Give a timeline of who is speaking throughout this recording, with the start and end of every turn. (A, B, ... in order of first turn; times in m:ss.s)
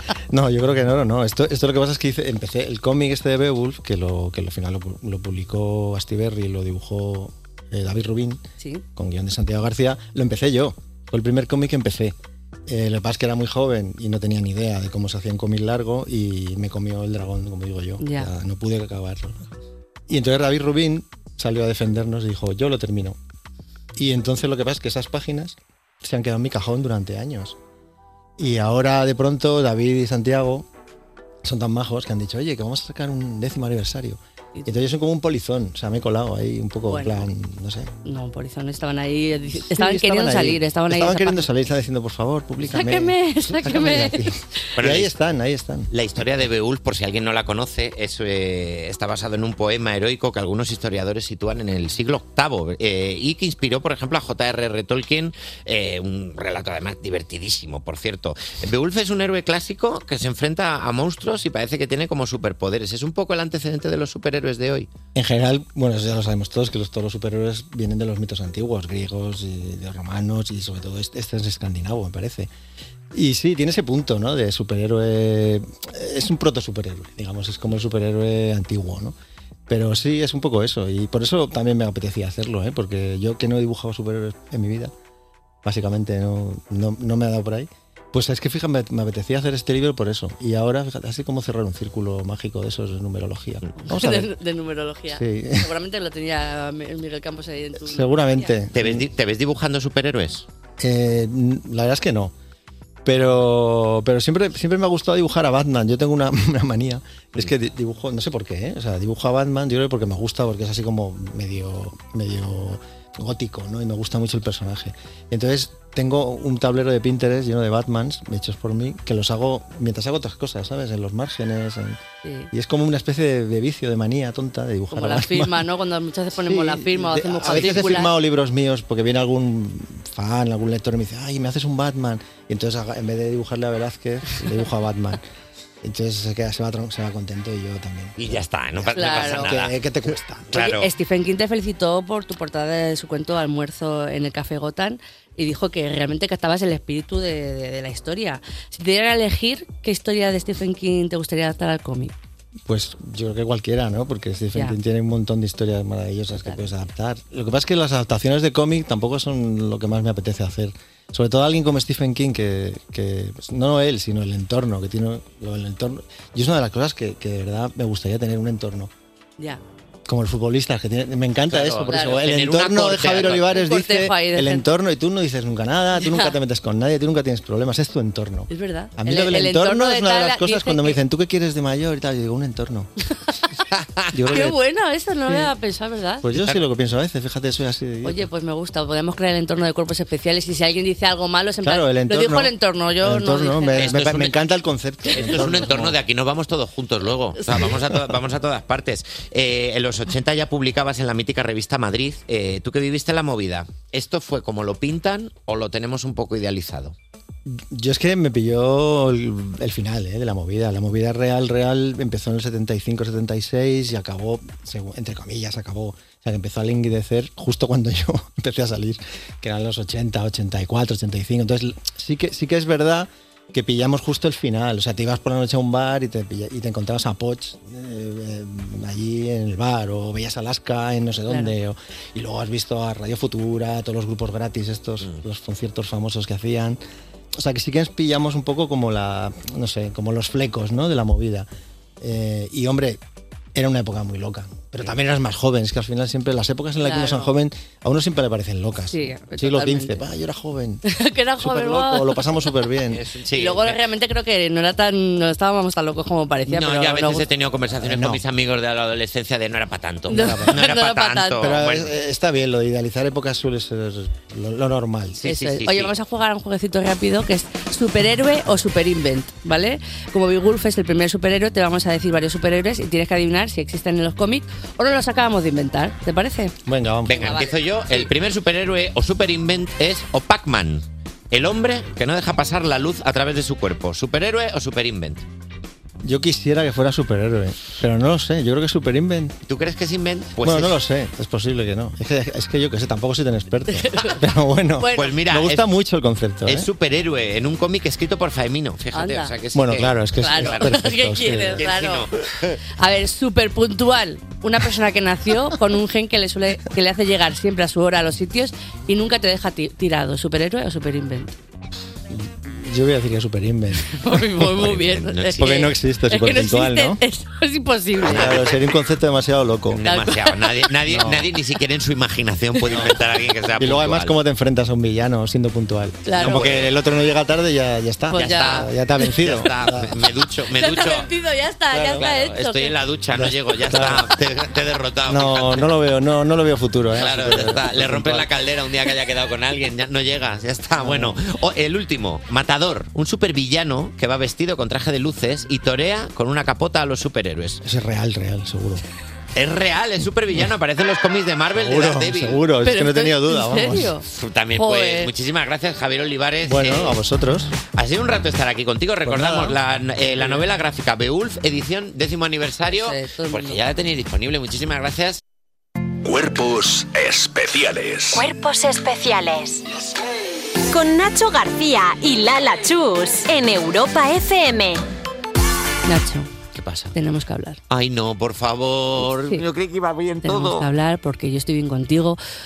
0:00.3-0:08.4 A
0:09.0-0:12.1 A
0:12.7-0:19.5 A
0:18.0-0:18.3 B
0:20.1-0:23.2 A
0:24.0-0:27.6 A
0:28.4-0:30.6 A
0:31.4-0:37.9 A
0:36.9-0:37.3 B
0:38.0-0:41.5 B
0:39.5-0:45.9 A
0:42.6-0:44.3 B
0:44.8-0:45.1 C
0:45.9-1:04.9 C
1:05.1-1:12.5 A
1:13.1-1:19.1 A
1:19.7-1:24.9 A
1:25.6-1:34.3 A
1:33.8-1:38.5 B
1:35.1-1:35.7 A
1:37.8-1:39.0 A
1:38.7-1:40.4 C
1:40.8-1:42.3 A
1:43.0-2:02.0 A
2:02.2-2:02.5 B
2:02.5-2:05.7 A
2:04.9-2:08.1 B
2:06.4-2:15.2 A
2:15.8-2:20.5 A
2:18.2-2:19.8 C
2:18.9-2:19.5 B
2:20.5-2:20.9 C
2:20.5-2:32.1 B
2:32.7-2:48.9 A
2:36.4-2:36.7 B
2:50.1-3:02.9 A
2:51.5-2:53.5 C
2:51.9-2:52.2 B
2:53.2-2:54.7 B
2:56.0-2:56.4 B
2:58.5-3:01.0 B
3:04.1-3:04.6 A
3:04.3-3:06.2 B
3:06.2-3:08.3 A
3:08.0-3:14.0 B
3:11.6-3:16.0 A
3:13.8-3:14.4 C
3:15.0-3:15.7 B
3:15.1-3:26.9 C
3:17.6-3:18.2 A
3:27.5-3:56.8 A
3:51.3-3:51.5 B
3:57.4-4:01.5 A
4:02.0-4:03.0 A
4:03.5-4:10.8 A
4:06.8-4:07.3 B
4:08.9-4:10.0 B
4:10.8-4:12.5 B
4:11.4-4:13.0 A
4:12.9-4:13.8 C
4:13.3-4:17.3 B
4:16.5-4:21.9 C
4:17.8-4:18.2 A
4:20.1-4:21.6 B
4:20.1-4:20.6 A
4:21.4-4:25.2 A
4:25.2-4:25.9 C
4:25.2-4:36.5 B
4:36.6-4:37.4 A
4:37.1-4:45.2 C
4:37.1-4:38.1 B
4:46.0-4:49.3 A
4:49.4-4:50.8 C
4:50.4-4:56.7 A
4:53.7-4:54.2 B
4:54.8-4:55.2 B
4:54.9-4:55.6 C
4:56.5-5:00.7 C
4:58.9-4:59.3 B
4:59.5-5:01.6 A
5:00.2-5:02.1 B
5:01.6-5:02.6 C
5:02.8-5:11.3 B
5:12.1-5:14.0 A
5:13.9-5:18.5 B
5:14.4-5:15.5 C
5:15.4-5:17.0 A
5:18.0-5:19.8 A
5:18.1-5:18.5 C
5:19.7-5:24.2 C
5:19.8-5:20.7 B
5:20.8-5:21.3 A
5:23.6-5:30.0 A
5:26.0-5:26.4 B
5:26.2-5:26.7 C
5:28.1-5:28.7 B
5:28.2-5:28.6 C
5:29.2-5:31.1 C
5:30.6-5:32.7 B
5:31.7-5:32.1 A
5:31.9-5:35.6 C
5:33.1-5:34.1 A
5:35.1-5:38.3 A
5:37.0-5:47.6 C
5:40.8-5:41.2 A
5:47.6-5:48.8 A
5:49.3-5:52.4 C
5:51.5-5:54.0 A
5:52.6-5:54.0 B
5:54.1-5:57.0 C
5:54.6-5:55.1 B
5:56.4-5:57.5 A
5:57.7-6:05.2 C
5:59.0-5:59.6 A
6:02.7-6:03.6 B
6:06.0-6:08.2 D
6:08.1-6:09.6 E
6:10.7-6:14.8 E
6:15.9-6:16.3 B
6:16.5-6:16.9 C
6:16.9-6:17.6 B
6:17.7-6:20.7 C
6:20.2-6:22.2 B